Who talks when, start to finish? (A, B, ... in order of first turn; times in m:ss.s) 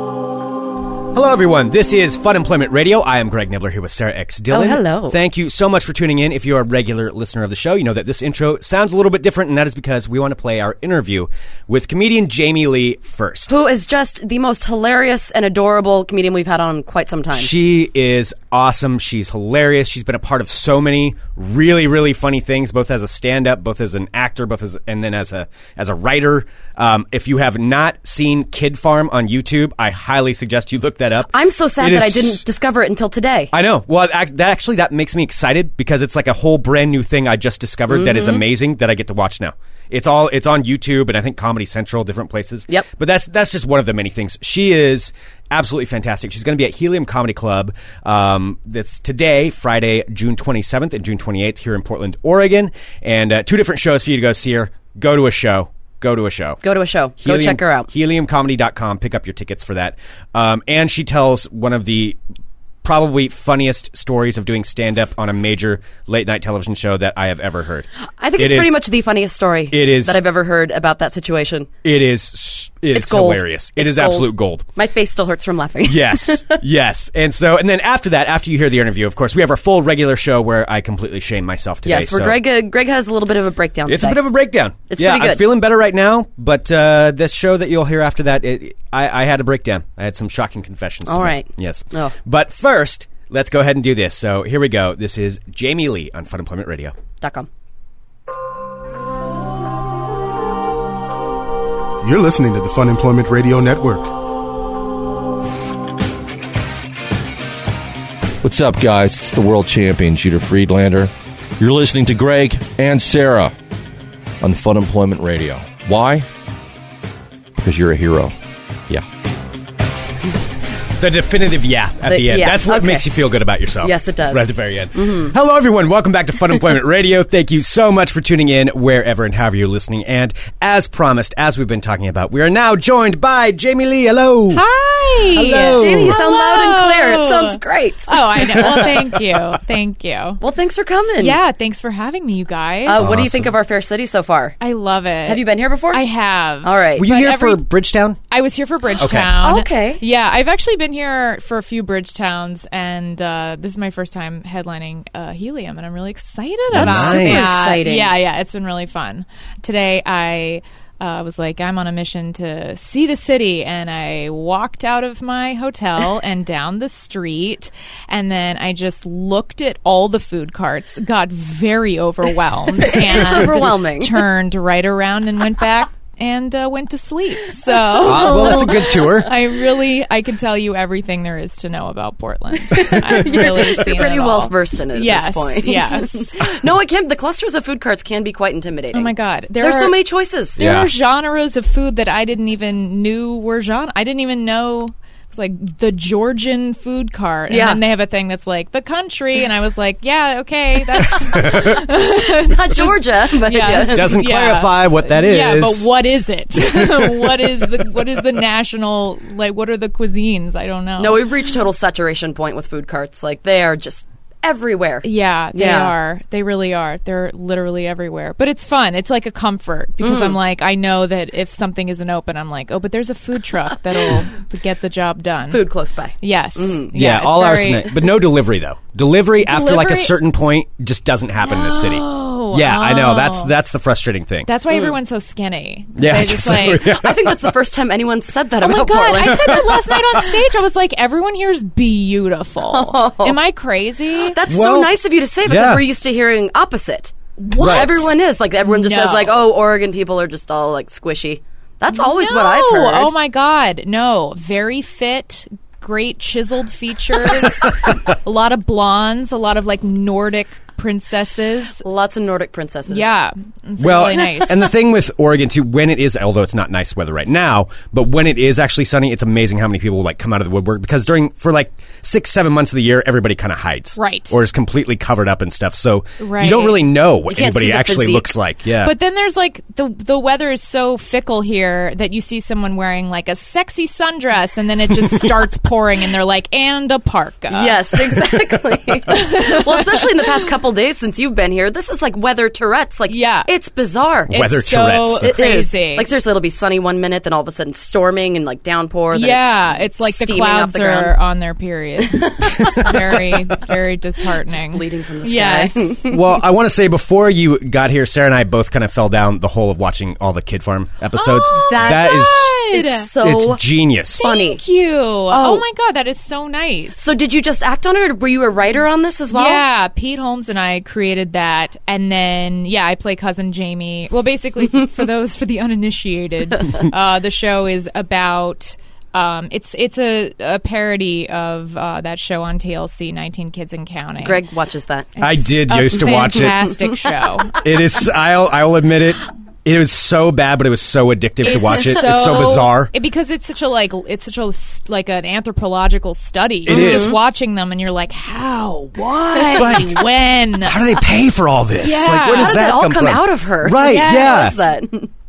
0:01.1-0:13.5 A
0:04.5-0:05.2 B
0:13.5-0:17.5 B
0:17.3-0:32.4 A
0:31.3-0:33.5 B
0:33.5-0:56.6 A
0:37.9-0:38.4 B
0:56.6-0:57.9 B
0:57.2-1:02.2 A
1:02.8-1:08.8 A
1:08.2-1:11.7 B
1:09.7-1:10.2 A
1:11.8-1:14.7 A
1:12.9-1:16.6 B
1:15.8-1:22.4 A
1:21.8-1:24.2 B
1:23.9-1:37.0 A
1:24.9-1:25.5 B
1:31.1-1:32.1 B
1:37.2-1:37.5 B
1:42.0-1:44.1 C
1:48.4-1:53.5 D
1:54.4-1:56.3 D
1:57.6-1:58.3 D
2:01.0-2:14.6 A
2:02.1-2:03.1 B
2:03.8-2:05.3 B
2:14.5-2:20.4 E
2:15.3-2:16.2 A
2:15.4-2:18.9 B
2:18.5-2:19.1 A
2:20.4-2:21.4 B
2:21.2-2:23.1 E
2:22.8-2:24.6 B
2:23.0-2:23.5 A
2:24.6-2:27.7 E
2:25.2-2:26.0 B
2:26.6-2:27.1 B
2:27.0-2:28.2 A
2:28.3-3:06.6 E
2:29.0-2:29.3 A
2:29.4-2:30.0 B
2:36.7-2:37.6 A
2:36.7-2:38.1 B
2:52.9-2:54.3 B
2:58.0-2:59.3 A
2:58.2-2:58.8 B
3:02.7-3:10.6 B
3:08.9-3:10.0 E
3:10.6-3:31.3 E
3:10.6-3:10.9 A
3:17.5-3:17.8 B
3:21.3-3:21.8 A
3:22.4-3:24.2 B
3:23.7-3:25.9 A
3:26.6-3:27.8 A
3:31.0-3:36.0 B
3:35.0-3:45.6 E
3:40.0-3:40.4 B
3:45.5-3:46.9 B
3:46.2-3:48.1 E
3:46.9-3:54.5 A
3:49.4-3:50.1 E
3:51.4-3:53.5 E
3:54.5-3:57.0 E
3:54.7-3:55.0 B
3:56.0-3:57.6 A
3:56.6-3:59.7 B
3:58.6-4:04.4 E
3:59.2-4:00.2 A
4:02.7-4:03.4 B
4:04.3-4:13.1 B
4:04.5-4:05.8 A
4:07.4-4:08.1 E
4:07.6-4:08.0 A
4:08.6-4:09.5 E
4:11.9-4:21.8 E
4:21.8-4:23.1 B
4:22.9-4:24.7 E
4:23.8-4:38.9 A
4:34.0-4:34.4 E
4:36.2-4:36.8 E
4:37.3-4:38.3 B
4:38.8-4:48.4 E
4:47.5-4:54.5 B
4:49.1-4:50.5 E
4:53.1-4:53.5 E
4:54.3-4:55.4 A
4:54.3-4:56.1 E
4:55.2-5:01.2 B
4:59.1-5:06.0 E
5:02.6-5:03.3 A
5:04.5-5:06.2 B
5:06.1-5:12.6 A
5:11.2-5:13.1 E
5:11.5-5:13.6 B
5:13.2-5:14.3 A
5:14.2-5:17.0 E
5:14.2-5:14.6 B
5:15.3-5:15.6 B
5:17.0-5:19.6 B
5:19.3-5:34.4 E
5:34.2-5:35.1 B
5:35.2-5:37.6 E
5:35.2-5:36.6 A
5:37.6-5:42.9 A
5:41.4-5:50.8 E
5:46.7-5:47.2 A
5:46.7-5:47.2 B
5:49.5-5:54.6 A
5:51.8-5:52.7 E
5:52.1-5:55.1 B
5:53.8-5:54.6 E